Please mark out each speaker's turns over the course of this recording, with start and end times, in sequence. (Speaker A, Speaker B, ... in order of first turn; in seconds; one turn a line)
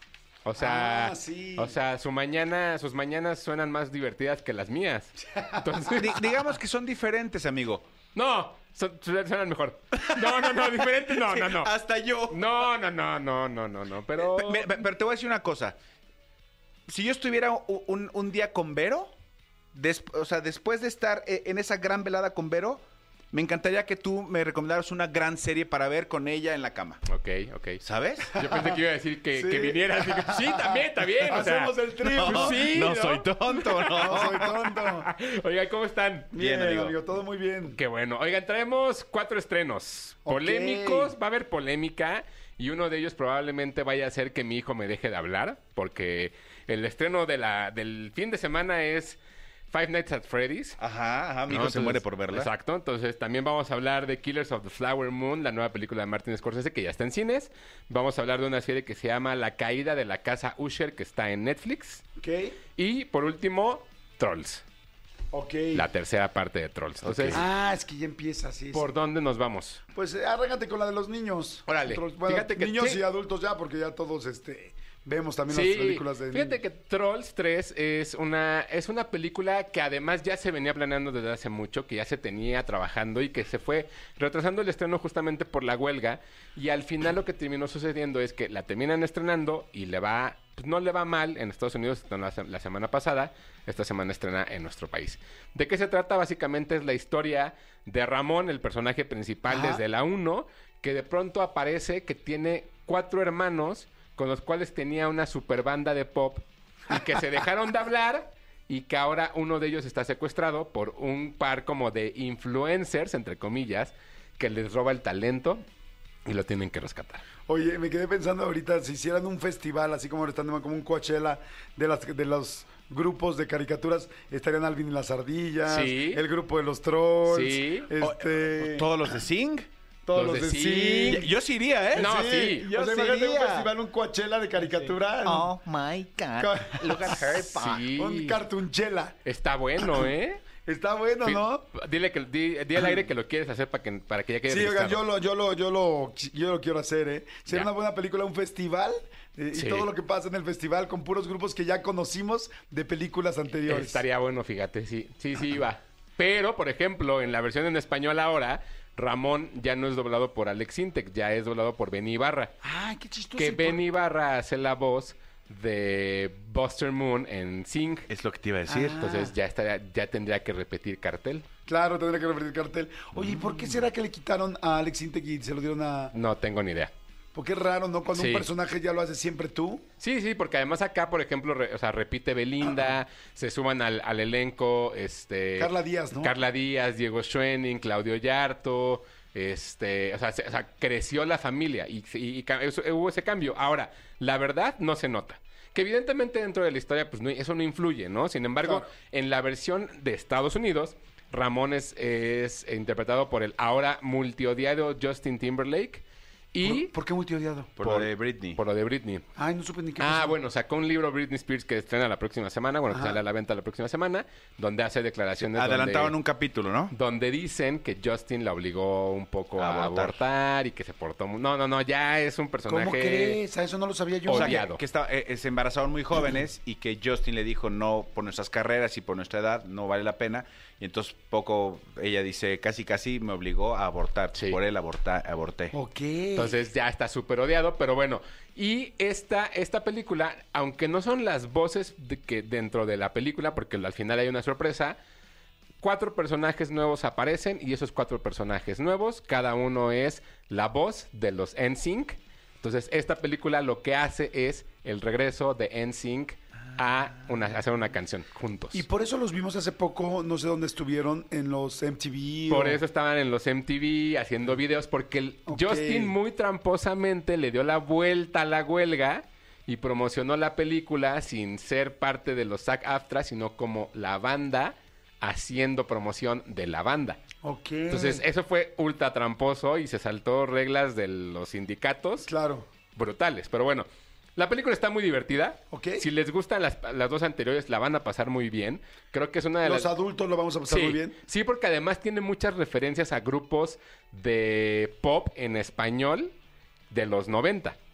Speaker A: 0.4-6.2
Speaker B: 0.6-1.8
Speaker B: 5.3-6.2
Speaker C: 6.0-7.8
Speaker A: 8.1-11.7
Speaker C: 10.0-12.4
Speaker A: 12.3-14.8
Speaker C: 14.2-15.8
Speaker C: 16.9-19.1
Speaker C: 19.7-27.0
Speaker A: 27.1-27.8
Speaker C: 27.8-28.4
Speaker A: 28.3-33.0
Speaker B: 28.4-28.8
Speaker B: 29.3-33.3
Speaker C: 32.0-34.5
Speaker A: 33.5-36.3
Speaker B: 33.9-35.1
Speaker B: 36.3-37.8
Speaker C: 36.4-37.0
Speaker A: 37.7-49.2
Speaker B: 40.3-41.1
Speaker A: 49.7-50.8
Speaker C: 50.8-52.5
Speaker A: 51.5-62.0
Speaker B: 62.2-62.6
Speaker A: 62.8-64.6
Speaker B: 65.3-65.9
Speaker A: 65.7-67.4
Speaker C: 67.0-67.4
Speaker B: 67.3-68.9
Speaker A: 68.7-69.8
Speaker B: 69.9-76.6
Speaker A: 71.7-73.0
Speaker A: 75.5-115.6
Speaker B: 99.5-99.8
Speaker A: 116.3-117.2
Speaker B: 117.5-129.1
Speaker A: 125.7-126.2
Speaker A: 127.3-127.9
Speaker C: 128.0-129.7
Speaker B: 130.1-131.3
Speaker A: 130.1-131.2
Speaker C: 131.1-133.7
Speaker A: 131.9-132.7
Speaker B: 131.9-135.5
Speaker C: 134.6-137.9
Speaker B: 136.4-137.3
Speaker A: 137.3-138.4
Speaker B: 137.9-139.2
Speaker A: 139.2-140.4
Speaker B: 139.8-141.7
Speaker A: 141.2-145.0
Speaker B: 142.8-143.0
Speaker B: 144.5-154.0
Speaker A: 149.5-149.9
Speaker A: 153.7-162.5
Speaker B: 162.6-163.8
Speaker A: 163.4-168.1
Speaker C: 168.1-169.2
Speaker B: 168.7-169.3
Speaker A: 168.9-171.4
Speaker B: 171.7-176.1
Speaker C: 173.2-173.8
Speaker A: 176.1-176.9
Speaker B: 177.3-179.8
Speaker A: 178.1-178.5
Speaker A: 180.0-206.9
Speaker B: 185.6-186.4
Speaker B: 198.6-198.9
Speaker B: 206.6-207.8
Speaker C: 207.8-208.6
Speaker A: 207.8-209.2
Speaker B: 209.4-210.4
Speaker A: 210.0-216.2
Speaker B: 212.9-213.2
Speaker C: 215.4-216.9
Speaker A: 216.9-223.4
Speaker C: 219.6-220.2
Speaker B: 222.7-224.7
Speaker A: 224.3-224.8
Speaker C: 224.3-235.8
Speaker B: 235.7-236.6
Speaker A: 236.3-245.0
Speaker A: 245.8-258.9
Speaker B: 258.7-262.8
Speaker A: 262.5-277.2
Speaker B: 265.5-266.2
Speaker B: 277.4-278.3
Speaker A: 277.9-282.3
Speaker B: 282.2-282.7
Speaker A: 282.9-289.9
Speaker B: 285.7-286.1
Speaker B: 289.6-291.2
Speaker A: 290.7-296.3
Speaker A: 296.9-297.8